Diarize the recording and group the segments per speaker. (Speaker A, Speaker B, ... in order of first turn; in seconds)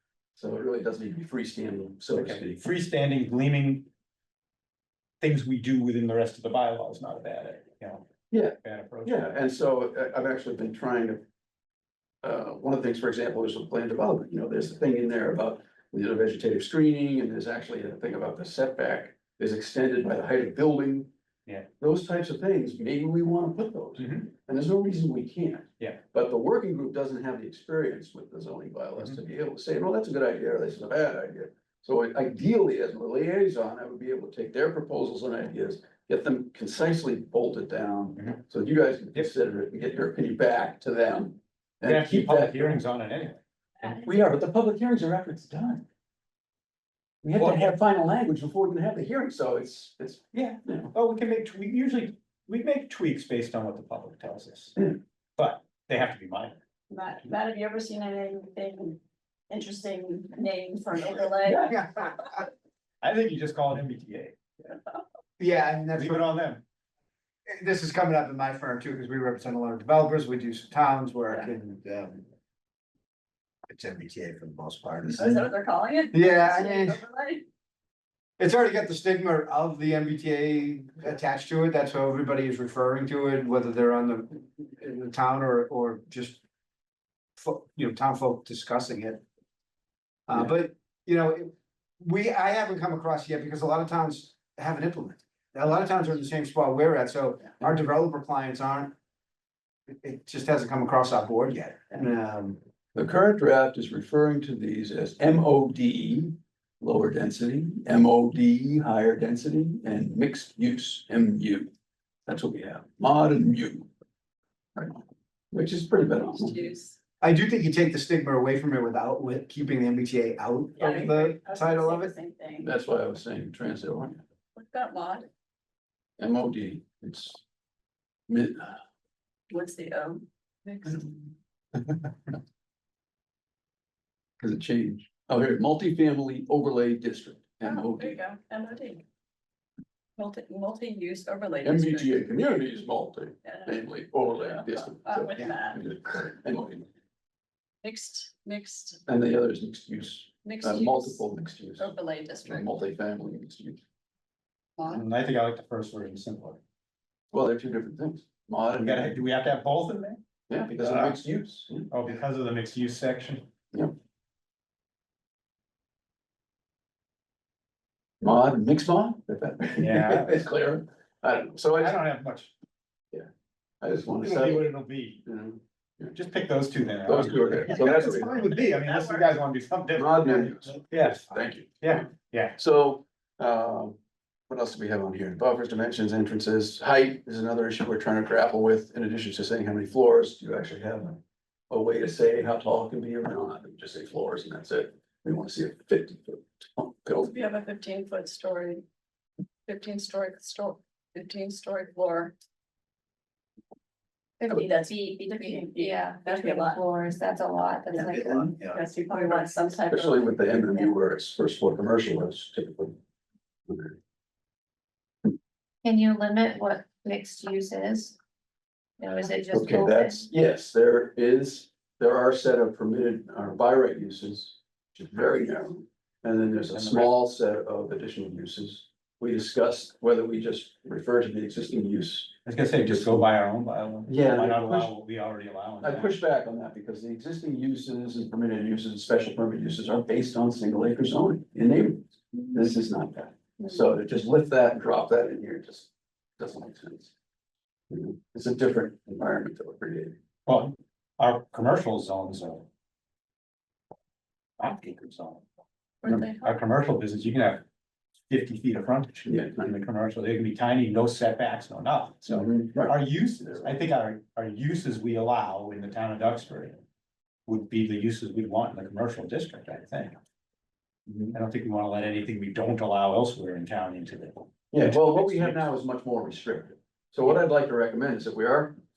Speaker A: 0.3-2.6, 8.3-11.2, 12.2-21.1, 21.8-42.8, 44.0-45.8, 47.2-50.9, 102.9-111.7, 112.2-113.9, 114.8-116.6, 122.6-124.2, 126.2-127.4, 128.3-128.8, 134.4-138.2, 141.6-146.9, 149.1-151.9, 152.4-153.8, 157.3-159.2, 160.5-161.9, 168.2-172.0, 173.8-174.7, 175.2-176.1, 177.0-178.5, 179.9-184.0, 184.5-197.3, 209.9-212.9, 213.7-213.9, 219.5-233.2, 234.1-234.9, 235.8-247.1, 247.9-250.2, 259.2-259.7, 262.3-263.7, 271.1-271.3, 274.7-278.7
Speaker B: 2.1-3.9, 5.2-8.1, 8.6-9.3, 24.0-24.3, 41.8-44.1, 47.4-47.7, 50.3-56.5, 63.0-64.4, 66.0-66.6, 154.8-156.6, 158.8-160.2, 160.7-161.2, 161.9-163.5, 169.8-170.4, 171.8-172.5, 174.2-175.2, 176.1-182.6, 226.7-227.1, 232.4-236.1, 250.4-252.7, 254.6-255.4, 256.0-257.6, 258.3-266.8, 267.5-270.2, 271.3-275.6
Speaker C: 43.8-44.2, 56.9-59.0, 59.5-62.2, 75.1-77.4, 116.1-116.9, 120.8-122.7, 124.5-125.3, 129.5-131.1, 137.6-139.0, 140.2-142.4, 143.4-143.8, 144.3-145.8, 147.8-149.0, 150.4-151.2, 151.8-152.7, 154.8-155.0, 197.2-198.8, 199.7-202.3, 204.5-206.8, 207.9-210.9, 256.0-256.6
Speaker D: 61.6-62.3, 65.4-66.3, 67.5-72.2, 73.7-75.5, 76.1-77.0, 78.4-86.4, 87.4-89.2, 90.3-98.9, 99.9-102.6, 117.2-122.1
Speaker E: 204.4-204.7, 205.3-208.5, 215.8-218.2, 219.0-220.3